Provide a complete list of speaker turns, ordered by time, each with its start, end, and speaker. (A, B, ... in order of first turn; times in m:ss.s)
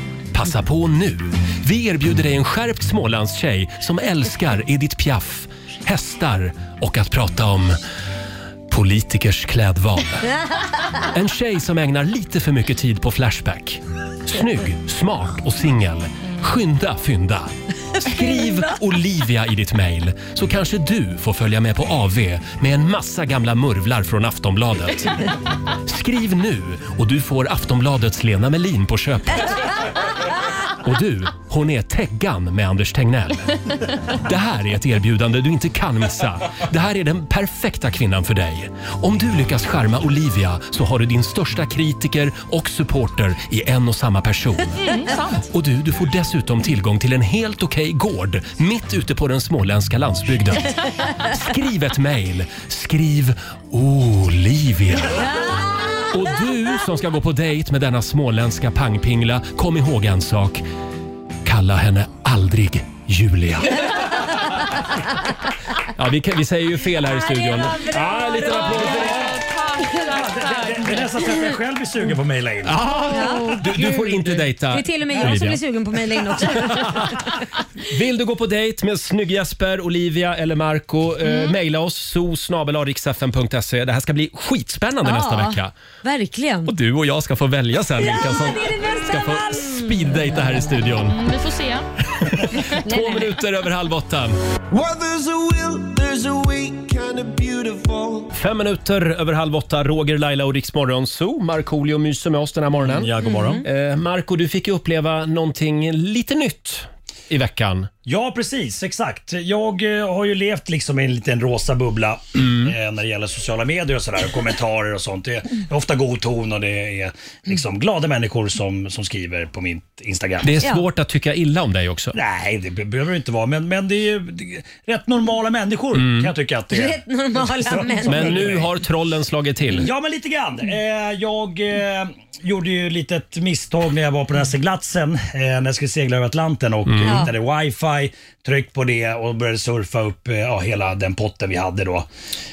0:00.3-0:07.8 A
0:08.7-0:10.3 A
0:11.1-0:29.6 A
0:18.0-0:18.8 B
0:30.8-0:33.5 A
0:34.1-0:44.8 A
0:44.8-0:45.5 C
0:45.4-0:55.3 A
0:55.1-0:56.2 B
0:56.1-1:00.6 A
1:01.4-1:04.1 A
1:05.9-1:09.4 A
1:07.0-1:09.0 B
1:08.3-1:11.0 C
1:08.7-1:09.2 D
1:09.9-1:12.8 D
1:12.6-1:15.6 A
1:13.0-1:17.4 B
1:13.2-1:13.6 C
1:16.4-1:17.3 A
1:17.9-1:25.7 A
1:21.2-1:21.5 B
1:25.0-1:26.7 B
1:26.6-1:31.2 A
1:28.0-1:30.1 B
1:31.1-1:31.9 C
1:32.2-1:34.4 A
1:32.8-1:33.3 B
1:34.7-1:38.3 E
1:38.3-1:47.9 A
1:42.8-1:43.6 D
1:43.2-1:43.6 B
1:48.1-2:00.5 D
1:52.4-1:52.7 A
2:00.4-2:02.2 A
2:02.1-2:08.7 D
2:05.9-2:06.3 A
2:06.7-2:08.5 B
2:08.0-2:09.9 A
2:09.7-2:22.1 D
2:16.9-2:17.2 A
2:17.0-2:17.3 B